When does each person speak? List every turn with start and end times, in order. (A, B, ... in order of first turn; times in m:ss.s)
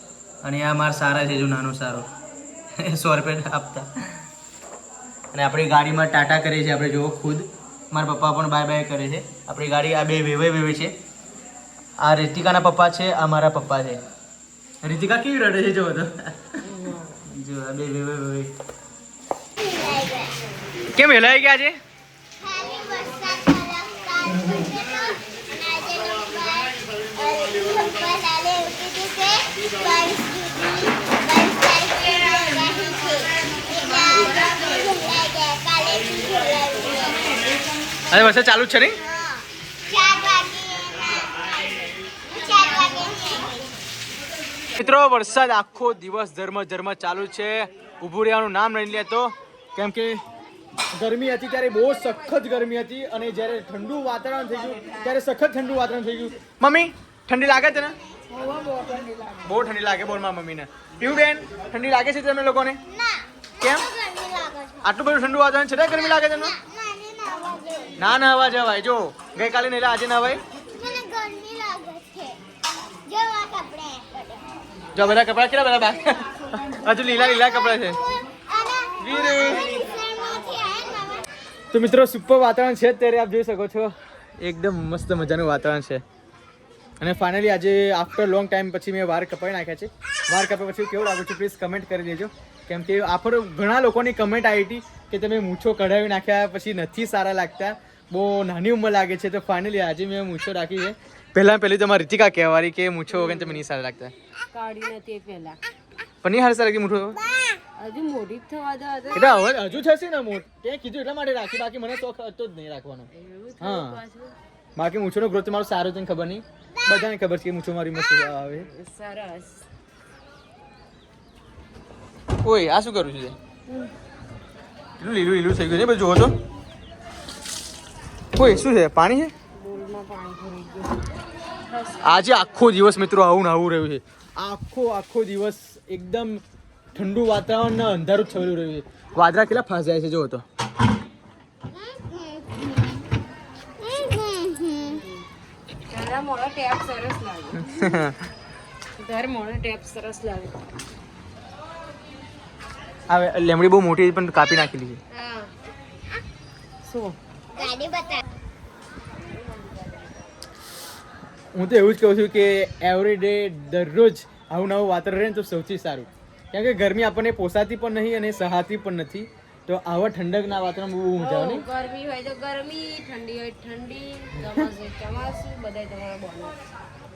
0:00.4-0:02.1 A
0:02.8-0:03.9 A
0:05.3-0:10.9 A
0:12.0-0:14.0 A
0:14.8-0:16.6 A
0:16.6-0:17.2 B
0:17.3-0:18.5 A
0:19.6-0:20.4 C
0:20.9-0:21.8 A
0:22.4-0:37.3 C
0:38.1-0:39.0 A
0:39.9-0:43.7 C
0:44.8-0:50.2 A
0:51.0-0:58.0 A
0:58.3-0:59.6 B
0:59.4-1:02.8 A
1:02.9-1:04.9 C
1:03.6-1:03.9 A
1:04.8-1:06.6 A
1:05.9-1:08.1 C
1:08.0-1:10.4 A
1:10.7-1:12.4 C
1:13.0-1:14.6 C
1:15.0-1:18.0 A
1:18.5-1:21.3 C
1:19.0-1:19.7 A
1:21.7-1:26.0 A
1:27.0-1:44.1 A
1:43.1-1:43.6 B
1:44.5-1:45.6 B
1:46.2-1:47.2 A
1:47.8-1:49.8 B
1:49.1-1:53.1 A
1:53.1-1:54.3 B
1:53.6-1:54.0 A
1:54.8-1:58.7 A
1:58.6-1:59.6 B
2:02.4-2:03.4 A
2:05.0-2:06.4 A
2:08.4-2:09.3 A
2:09.6-2:11.1 B
2:11.6-2:12.5 B
2:12.0-2:16.4 A
2:16.9-2:20.4 A
2:21.7-2:23.0 C
2:23.8-2:25.0 C
2:24.8-2:25.3 B
2:25.9-2:27.9 B
2:27.6-2:28.2 A
2:29.0-2:30.6 B
2:33.1-2:35.0 A
2:35.1-2:35.5 B
2:36.8-2:37.2 B
2:37.5-2:38.2 C
2:39.3-2:40.2 B
2:41.5-2:51.6 A
2:51.2-2:56.6 B